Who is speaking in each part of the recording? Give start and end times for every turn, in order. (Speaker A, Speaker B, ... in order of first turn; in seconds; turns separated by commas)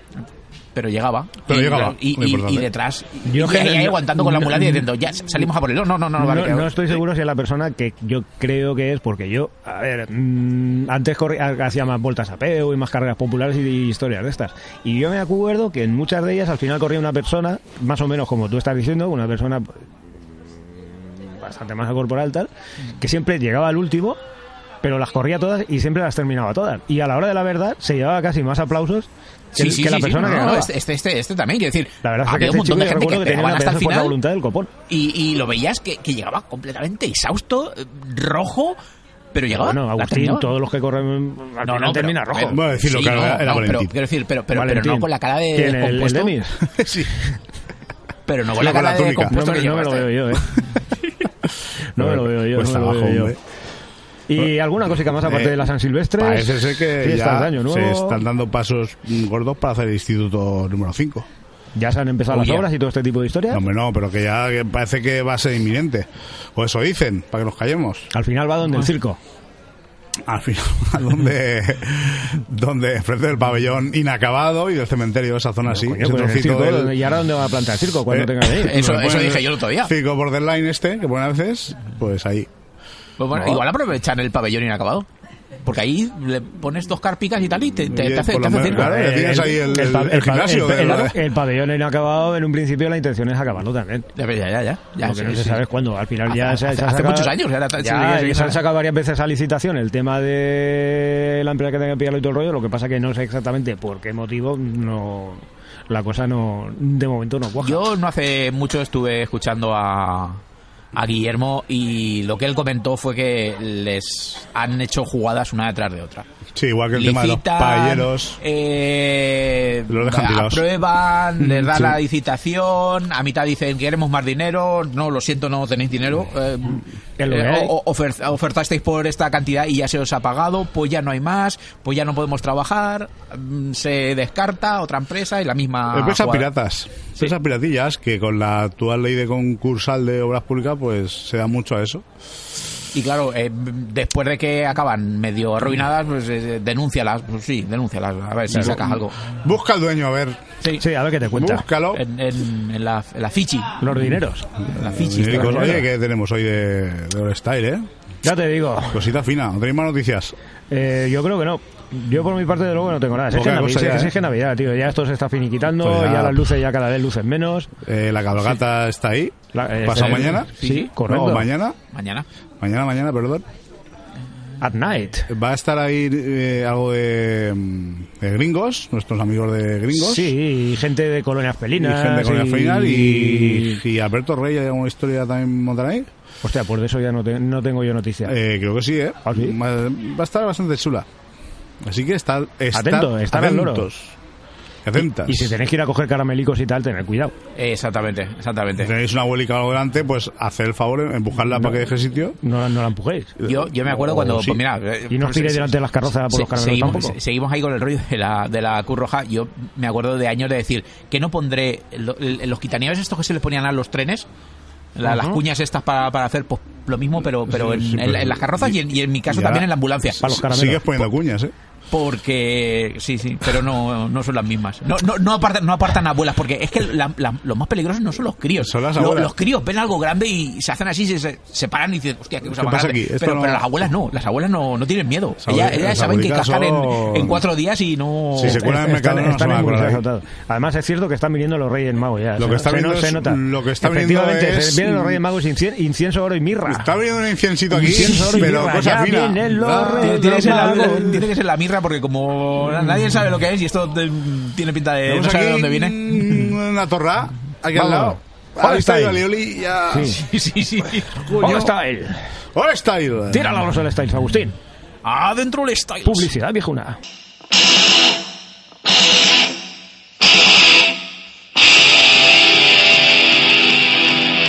Speaker A: 0.8-7.0, Speaker B: 1.4-2.7, Speaker C: 3.3-4.8, Speaker C: 6.2-19.9, Speaker C: 20.8-22.5, Speaker C: 23.0-24.2, Speaker C: 24.8-30.7, Speaker A: 29.6-34.1, Speaker C: 32.0-34.7, Speaker A: 34.9-38.8, Speaker A: 39.3-40.5, Speaker C: 39.5-42.6, Speaker A: 41.6-46.3, Speaker B: 42.4-43.9, Speaker C: 44.5-46.6, Speaker B: 46.8-47.1, Speaker A: 48.3-50.1, Speaker B: 48.5-49.4, Speaker C: 49.3-50.5, Speaker C: 51.9-53.4, Speaker B: 52.0-53.4, Speaker C: 54.3-58.2, Speaker B: 55.0-61.3, Speaker C: 61.8-63.6, Speaker A: 62.3-62.6, Speaker B: 63.5-68.1, Speaker C: 68.1-69.2, Speaker B: 70.2-77.0, Speaker C: 75.7-78.7, Speaker B: 78.1-82.5, Speaker A: 78.6-79.9, Speaker A: 83.2-85.1, Speaker C: 83.3-83.6, Speaker A: 85.6-88.9, Speaker B: 87.9-91.2, Speaker C: 88.7-94.1, Speaker A: 94.2-95.6, Speaker C: 95.0-107.8, Speaker A: 96.3-98.6, Speaker A: 107.6-110.4, Speaker A: 110.9-116.3, Speaker B: 116.5-118.4, Speaker A: 116.9-136.5, Speaker B: 119.9-120.7, Speaker B: 121.4-122.0, Speaker C: 127.2-127.7, Speaker B: 135.9-142.1, Speaker A: 142.9-149.2, Speaker B: 148.5-150.4, Speaker C: 150.8-151.6, Speaker B: 151.3-152.0, Speaker A: 151.9-153.8, Speaker C: 153.8-154.5, Speaker A: 154.7-155.8, Speaker B: 154.8-157.9, Speaker C: 155.3-155.8, Speaker C: 158.2-159.1, Speaker B: 158.9-160.4, Speaker C: 160.7-167.7, Speaker B: 163.3-164.1, Speaker B: 165.8-166.6, Speaker B: 167.8-170.5, Speaker C: 169.5-171.5, Speaker A: 169.9-170.9, Speaker B: 171.1-171.8, Speaker A: 171.9-172.3, Speaker B: 172.6-173.4, Speaker C: 174.6-175.3, Speaker B: 175.3-180.3, Speaker C: 179.9-183.8, Speaker B: 181.8-186.1, Speaker C: 186.4-188.3, Speaker B: 188.3-191.1, Speaker C: 189.2-189.6, Speaker B: 191.8-194.2, Speaker C: 192.7-193.9, Speaker B: 194.8-195.6, Speaker C: 195.0-197.3, Speaker A: 197.6-198.9, Speaker B: 198.8-202.4, Speaker C: 202.4-203.3, Speaker B: 203.4-204.6, Speaker A: 203.4-214.3, Speaker C: 205.1-207.2, Speaker A: 214.9-220.2, Speaker C: 215.0-215.4, Speaker B: 217.5-221.5, Speaker C: 220.2-221.0, Speaker A: 221.9-238.6, Speaker B: 228.6-229.3, Speaker B: 232.5-233.7, Speaker B: 235.4-237.4, Speaker B: 238.3-240.0, Speaker C: 238.4-246.9, Speaker B: 242.4-245.2, Speaker B: 246.7-251.1, Speaker C: 247.7-251.2, Speaker A: 250.0-256.5, Speaker B: 255.1-260.2, Speaker C: 257.7-259.2, Speaker C: 259.9-260.2, Speaker A: 260.1-261.6, Speaker C: 261.4-262.2, Speaker B: 261.4-261.7, Speaker B: 262.6-263.6, Speaker C: 263.3-264.6, Speaker A: 265.1-266.3, Speaker C: 266.1-267.0